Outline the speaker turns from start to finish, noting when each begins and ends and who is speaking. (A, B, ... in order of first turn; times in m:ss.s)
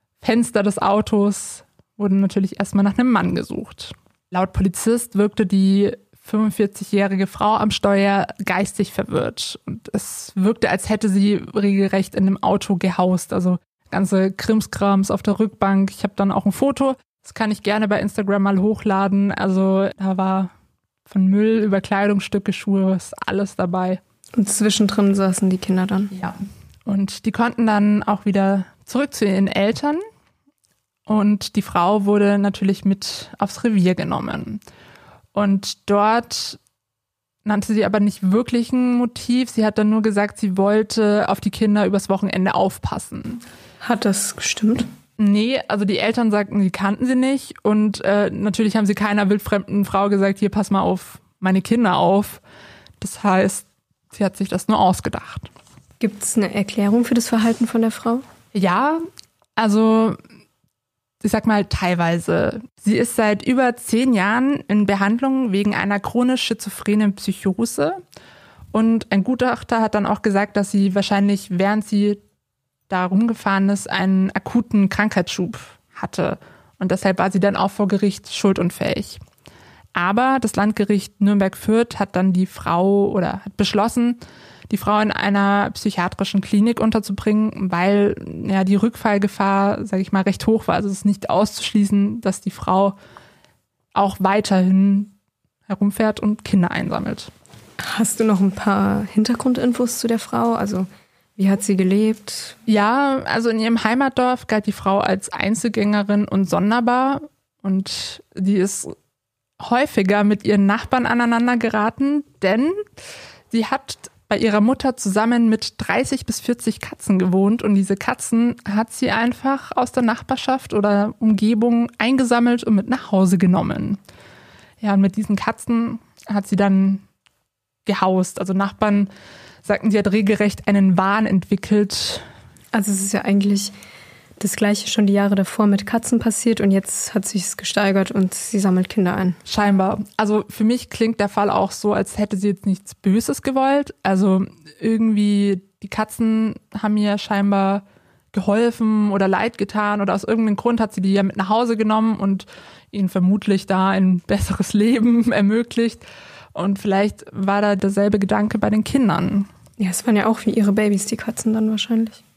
0:00.2-0:20.5 A
0:21.1-0:24.0 A
0:24.4-0:26.1 B
0:26.1-0:30.0 A
0:31.0-0:34.6 A
0:35.3-0:36.6 A
0:37.4-0:43.4 A
0:43.8-0:44.9 B
0:45.2-0:52.4 A
0:53.0-0:55.5 A
0:56.0-0:58.2 B
0:58.5-0:59.0 A
0:59.6-1:00.2 A
1:01.2-1:08.0 A
1:08.7-1:12.2 A
1:12.9-1:19.2 A
1:19.9-1:33.0 A
1:33.9-1:35.1 A
1:35.7-1:37.3 A
1:37.8-1:42.6 B
1:42.7-1:48.9 A
1:49.6-1:52.8 A
1:53.5-2:04.0 A
2:04.8-2:07.0 A
2:07.8-2:09.1 A
2:09.6-2:12.2 A
2:12.7-2:13.7 B
2:14.4-2:19.4 B
2:19.5-2:39.5 A
2:39.8-2:42.2 B